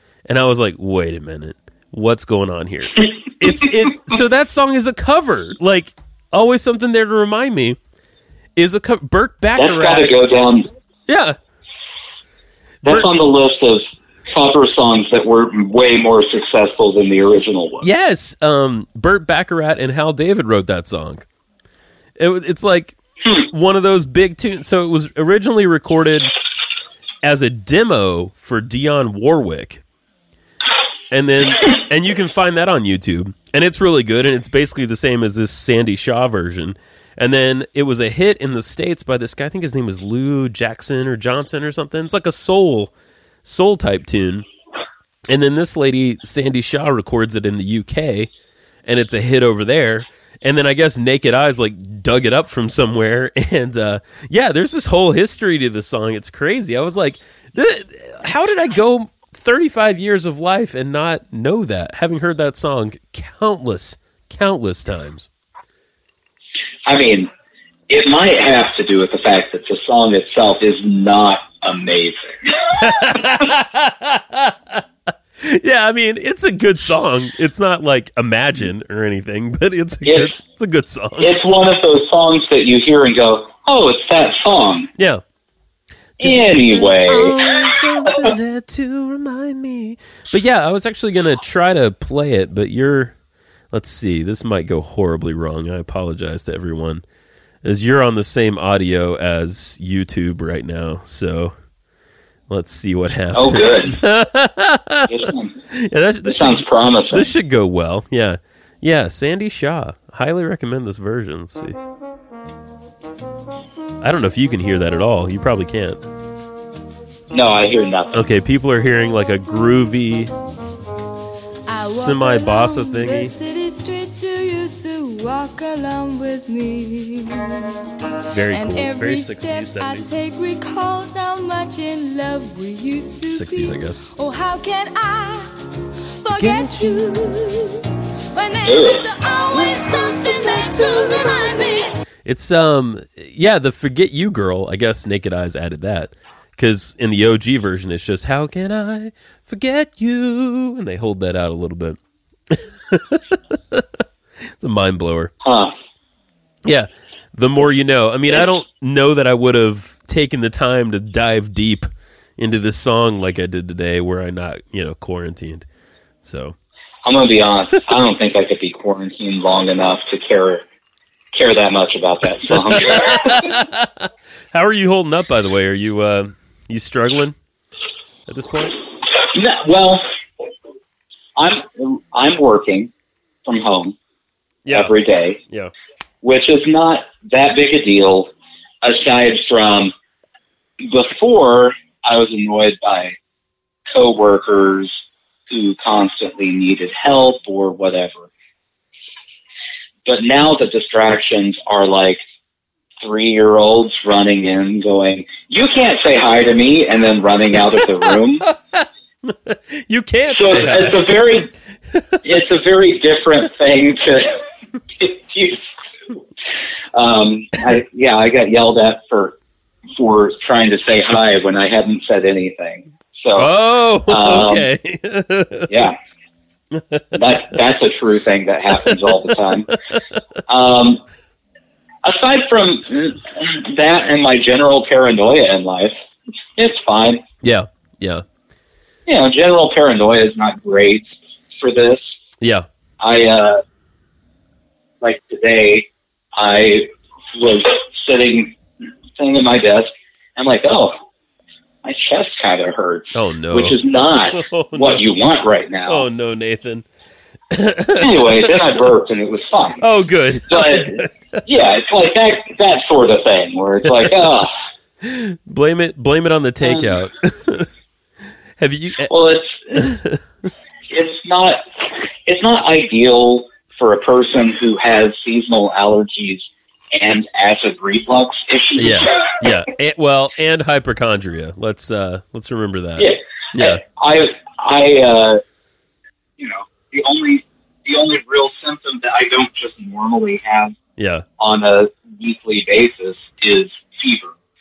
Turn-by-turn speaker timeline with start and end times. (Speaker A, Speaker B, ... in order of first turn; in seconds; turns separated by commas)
Speaker A: 0.3-7.8, Speaker A: 8.6-10.2, Speaker B: 9.6-10.7, Speaker A: 11.1-11.4, Speaker B: 12.8-17.9, Speaker A: 17.8-21.3, Speaker A: 22.2-26.3, Speaker A: 27.2-29.8, Speaker A: 31.1-42.9, Speaker A: 43.4-44.5, Speaker A: 45.3-48.3, Speaker A: 48.9-65.3, Speaker B: 66.8-67.3, Speaker B: 67.9-72.5, Speaker A: 72.7-74.8, Speaker A: 75.4-81.3, Speaker B: 80.0-80.3, Speaker B: 81.2-84.9, Speaker B: 86.2-88.3, Speaker A: 86.2-93.2, Speaker A: 93.7-97.0, Speaker A: 97.6-101.5, Speaker A: 102.5-111.8, Speaker B: 103.3-104.0, Speaker B: 105.1-105.6, Speaker B: 106.2-107.3, Speaker A: 114.0-116.0, Speaker B: 117.3-118.2, Speaker A: 118.1-120.3, Speaker A: 121.7-123.3, Speaker C: 121.7-127.8, Speaker A: 128.3-130.1, Speaker C: 128.5-135.5, Speaker A: 133.3-134.0, Speaker C: 136.2-142.0, Speaker A: 136.4-137.2, Speaker B: 138.6-139.0, Speaker A: 142.2-152.0, Speaker A: 152.5-153.9, Speaker A: 154.6-155.3, Speaker B: 155.4-155.7, Speaker A: 156.7-165.7, Speaker A: 166.2-166.6, Speaker B: 167.0-170.6, Speaker B: 171.3-173.5, Speaker A: 172.5-177.4, Speaker A: 178.3-178.8, Speaker B: 179.2-180.0, Speaker B: 181.4-182.9, Speaker B: 183.4-184.0, Speaker A: 184.7-184.9, Speaker B: 184.7-185.4, Speaker B: 186.2-189.9, Speaker B: 190.8-193.2, Speaker B: 193.9-195.0, Speaker B: 195.5-198.3, Speaker B: 200.1-202.2, Speaker B: 203.0-208.5, Speaker A: 208.4-211.1, Speaker B: 210.3-211.5, Speaker A: 211.9-212.2, Speaker B: 212.2-214.4, Speaker B: 215.0-215.7, Speaker B: 216.9-219.4, Speaker B: 219.9-223.5, Speaker A: 223.4-225.7, Speaker B: 224.1-224.7, Speaker B: 225.7-226.0, Speaker A: 226.8-227.1, Speaker B: 227.1-229.7, Speaker A: 228.8-230.0, Speaker B: 230.5-231.0, Speaker B: 232.0-236.0, Speaker B: 236.6-237.2, Speaker A: 237.4-238.2, Speaker B: 239.1-242.0, Speaker A: 242.4-242.7, Speaker B: 243.0-243.6, Speaker B: 245.0-248.6, Speaker B: 249.2-250.9, Speaker B: 251.8-256.1, Speaker A: 253.1-253.8, Speaker A: 254.3-255.0, Speaker A: 255.9-256.9, Speaker A: 257.5-258.7, Speaker B: 258.0-259.8, Speaker A: 259.8-261.4, Speaker B: 260.5-264.5, Speaker A: 263.9-264.1, Speaker A: 265.0-267.7, Speaker B: 266.6-267.0, Speaker A: 268.6-269.1, Speaker B: 269.1-269.9, Speaker A: 269.7-270.2, Speaker B: 270.9-279.3, Speaker A: 278.8-283.8, Speaker B: 283.0-285.4, Speaker B: 286.4-290.8, Speaker A: 291.0-291.2, Speaker B: 291.4-294.4